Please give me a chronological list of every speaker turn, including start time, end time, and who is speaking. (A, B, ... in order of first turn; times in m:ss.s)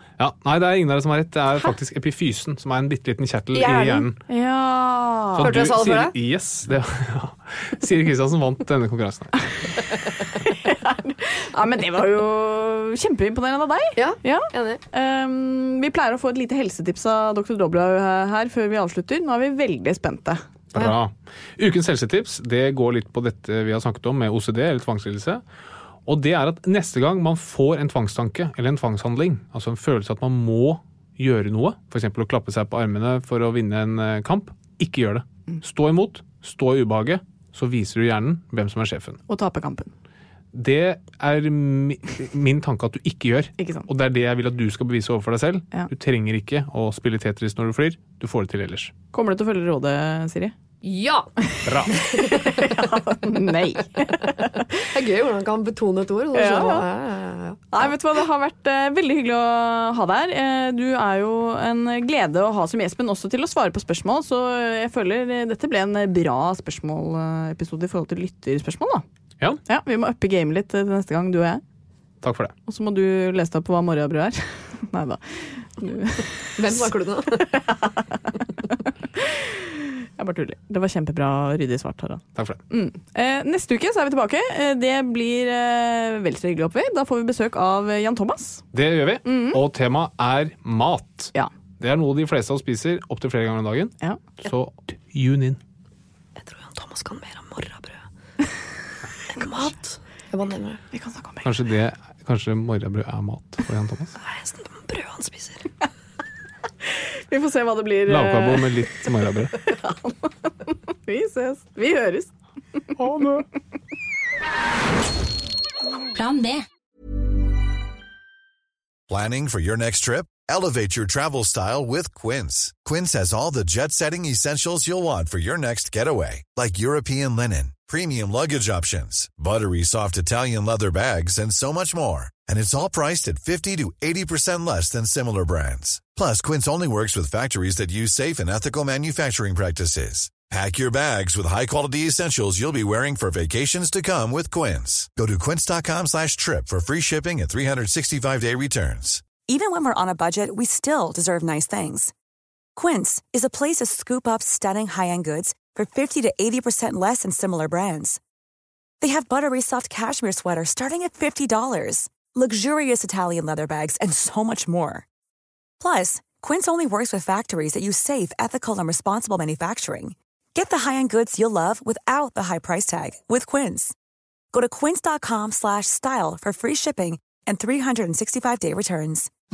0:00.2-0:04.2 A
0:03.5-0:04.1 B
0:04.3-0:05.5 C
0:05.3-0:09.3 A
0:05.4-0:06.1 B
0:10.4-0:20.4 C
0:14.0-0:14.8 B
0:20.7-0:25.4 A
0:26.0-0:39.2 A
0:39.3-0:39.9 C
0:40.5-0:48.9 A
0:43.6-0:43.9 C
0:49.1-0:50.5 C
0:50.8-0:51.3 B
0:51.6-0:52.0 A
0:51.9-0:52.8 B
0:52.2-0:54.6 C
0:54.8-0:57.6 B
0:56.3-0:56.8 C
0:57.7-1:09.0 C
1:09.6-1:11.6 C
1:12.2-1:12.5 A
1:12.7-1:16.9 C
1:16.6-1:17.6 B
1:18.7-1:28.6 C
1:22.3-1:22.6 A
1:28.7-1:35.6 A
1:29.2-1:29.6 C
1:36.4-1:38.0 B
1:39.3-1:40.8 B
1:40.9-1:41.5 C
1:41.4-1:44.2 A
1:44.2-1:45.7 B
1:47.3-1:48.7 C
1:48.1-1:49.7 A
1:49.8-1:50.1 C
1:50.7-1:52.3 C
1:53.0-1:53.4 A
1:59.1-2:29.3 D
2:29.4-2:32.1 E
2:32.8-2:38.2 E
2:39.0-2:45.0 E
2:45.8-2:53.9 E
2:54.5-2:59.3 E